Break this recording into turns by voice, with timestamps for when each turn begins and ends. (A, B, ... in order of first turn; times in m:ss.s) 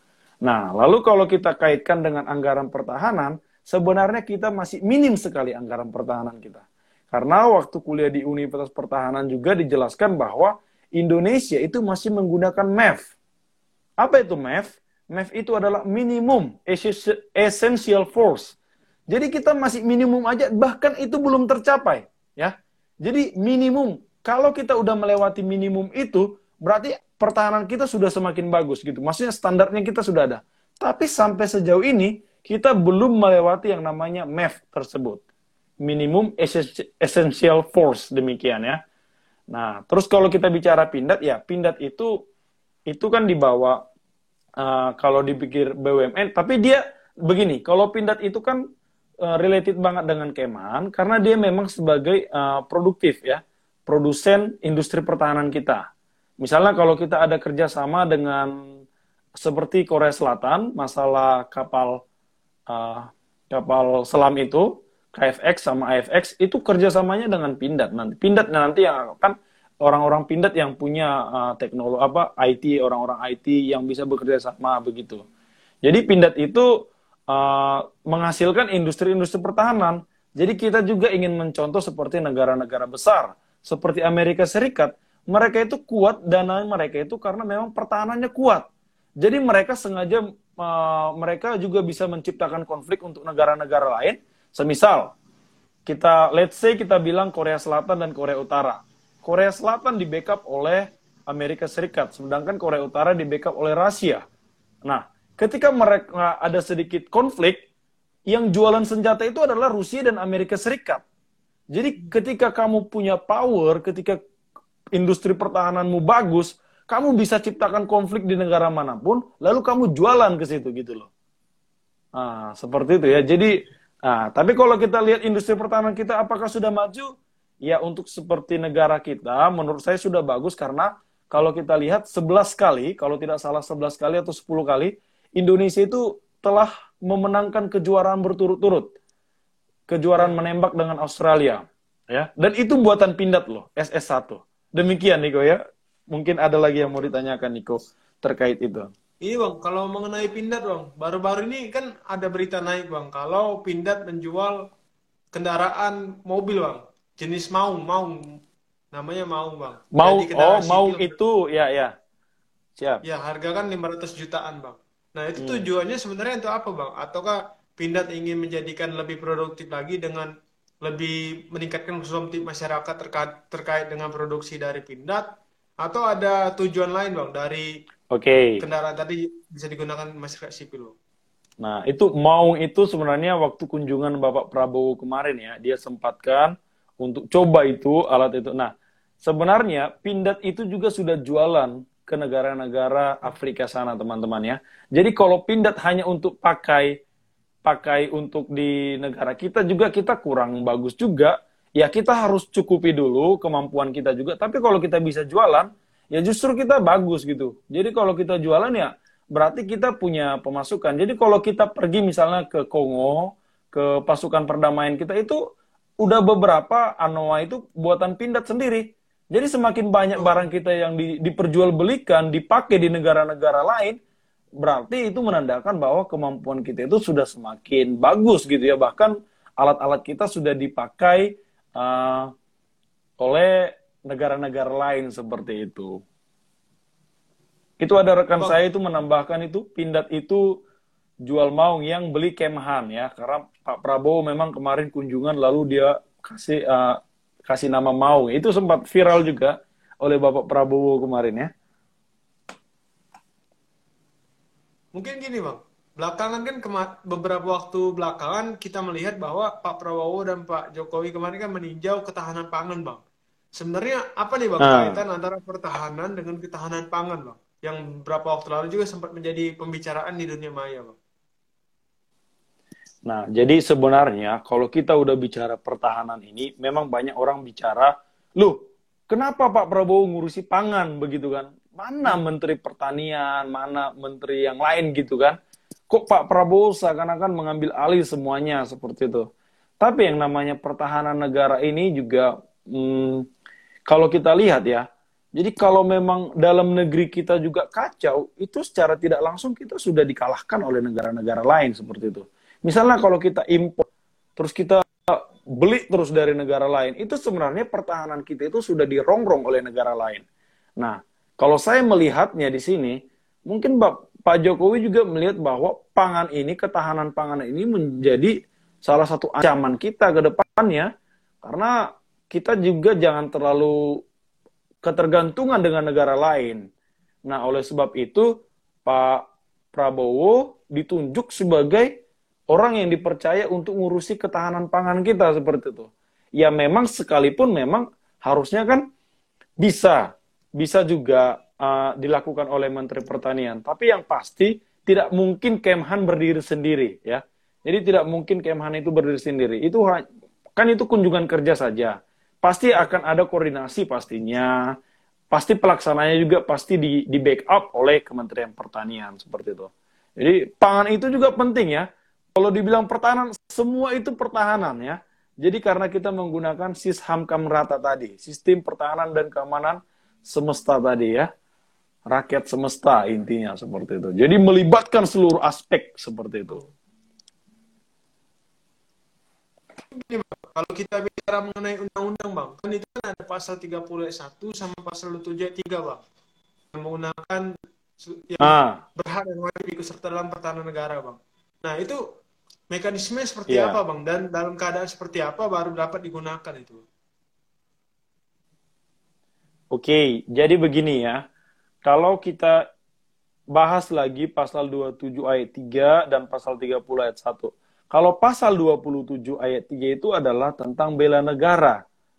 0:00.4-0:13.1 A
0:14.0-0:18.6 A
0:19.1-0:35.2 A
0:35.8-0:38.8 A
0:39.5-0:42.1 A
0:42.9-0:43.8 A
0:44.6-0:48.6 A
0:49.2-0:55.9 A
0:56.4-0:58.8 A
0:59.4-1:02.0 A
1:02.7-1:15.2 A
1:15.8-1:28.7 A
1:29.2-1:35.2 A
1:35.9-1:44.2 A
1:44.8-1:47.6 A
1:48.3-1:51.0 A
1:51.7-1:54.2 A
1:55.0-2:01.1 A
2:02.2-2:07.1 A
2:07.6-2:18.9 A
2:19.9-2:25.6 A
2:26.1-2:28.9 A
2:29.2-2:34.6 B
2:35.3-2:38.4 B
2:38.9-2:41.1 B
2:40.0-2:41.9 A
2:42.8-2:43.0 A
2:43.0-2:50.3 B
2:45.4-2:45.7 A
2:50.8-2:55.3 B
2:55.8-2:57.7 B
2:58.1-2:58.6 A
2:58.6-3:00.9 B
3:01.6-3:16.9 A
3:17.6-3:35.4 A
3:36.0-3:44.0 A
3:40.1-3:40.5 B
3:44.6-3:52.3 A
3:53.2-3:56.0 A
3:57.8-4:00.4 A
4:01.2-4:11.5 A
4:14.9-4:23.0 B
4:23.6-4:31.0 B
4:24.6-4:25.0 A
4:33.1-4:45.4 A
4:45.9-4:49.3 A
4:49.8-4:53.2 A
4:53.9-5:10.2 A
5:10.8-5:18.3 A
5:18.8-5:20.9 A
5:21.4-5:21.8 A
5:22.3-5:24.0 A
5:24.8-5:26.6 A
5:27.3-5:28.3 A
5:28.8-5:31.9 A
5:32.5-5:38.8 A
5:39.6-5:50.0 A
5:50.6-5:54.6 A
5:55.3-6:11.3 A
6:12.1-6:16.6 A
6:19.9-6:26.0 B
6:26.7-6:32.0 B
6:28.4-6:28.8 A
6:32.7-6:36.8 B
6:33.5-6:33.8 A
6:39.7-6:41.2 A
6:41.8-6:42.6 A
6:43.6-6:51.8 A